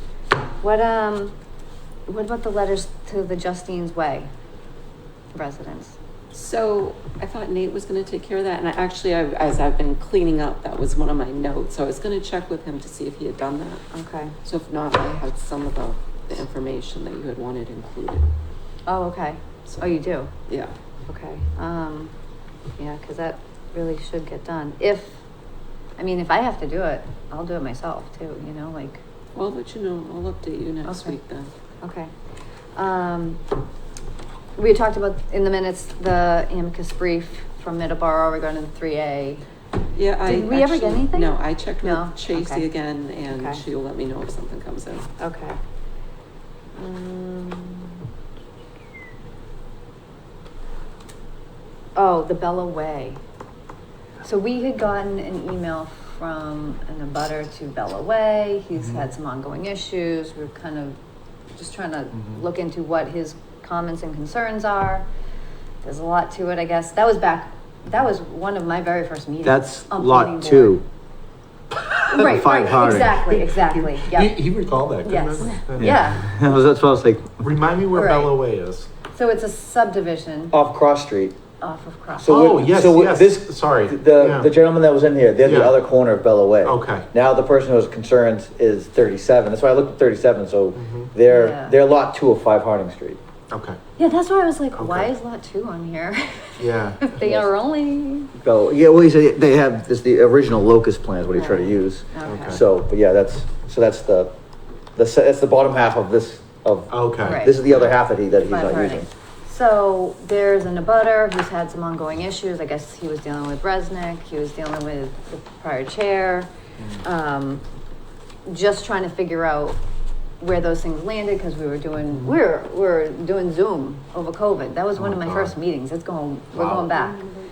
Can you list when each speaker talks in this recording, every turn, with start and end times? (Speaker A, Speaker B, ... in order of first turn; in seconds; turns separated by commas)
Speaker A: 0.6-1.4, Speaker A: 2.1-4.3, Speaker A: 5.3-6.0, Speaker B: 6.3-13.8, Speaker A: 13.9-14.4, Speaker B: 14.4-18.3, Speaker A: 18.9-20.3, Speaker B: 20.5-20.7, Speaker A: 21.1-22.1, Speaker A: 22.8-25.2, Speaker A: 26.0-29.0, Speaker B: 29.4-31.5, Speaker A: 30.9-31.2, Speaker A: 31.8-32.1, Speaker A: 32.8-33.4, Speaker A: 34.6-39.5, Speaker B: 39.9-45.1, Speaker A: 40.3-42.7, Speaker A: 43.3-43.6, Speaker A: 45.2-45.6, Speaker A: 46.8-48.0, Speaker A: 52.0-53.2, Speaker A: 54.2-61.0, Speaker C: 58.8-59.0, Speaker A: 61.5-65.1, Speaker C: 62.1-62.4, Speaker A: 65.8-70.8, Speaker D: 69.4-70.8, Speaker A: 72.1-74.5, Speaker D: 72.1-73.3, Speaker C: 72.8-76.1, Speaker A: 75.0-76.3, Speaker D: 75.8-77.5, Speaker C: 77.4-78.9, Speaker A: 77.9-78.4, Speaker A: 79.1-80.6, Speaker D: 80.5-81.4, Speaker A: 81.6-82.5, Speaker D: 82.2-93.2, Speaker C: 82.3-84.5, Speaker C: 85.4-85.8, Speaker C: 86.6-87.1, Speaker C: 90.8-91.1, Speaker A: 91.3-91.8, Speaker C: 93.5-93.8, Speaker A: 94.0-98.3, Speaker C: 94.8-95.1, Speaker C: 96.6-97.1, Speaker D: 97.2-97.5, Speaker D: 98.4-104.3, Speaker A: 101.3-102.6, Speaker C: 102.2-102.6, Speaker D: 105.0-109.1, Speaker C: 106.9-107.5, Speaker A: 107.2-107.8, Speaker A: 108.5-116.5, Speaker C: 116.8-117.0, Speaker A: 117.0-117.6, Speaker A: 118.5-119.8, Speaker A: 120.4-127.3, Speaker C: 125.0-125.5, Speaker C: 126.5-126.9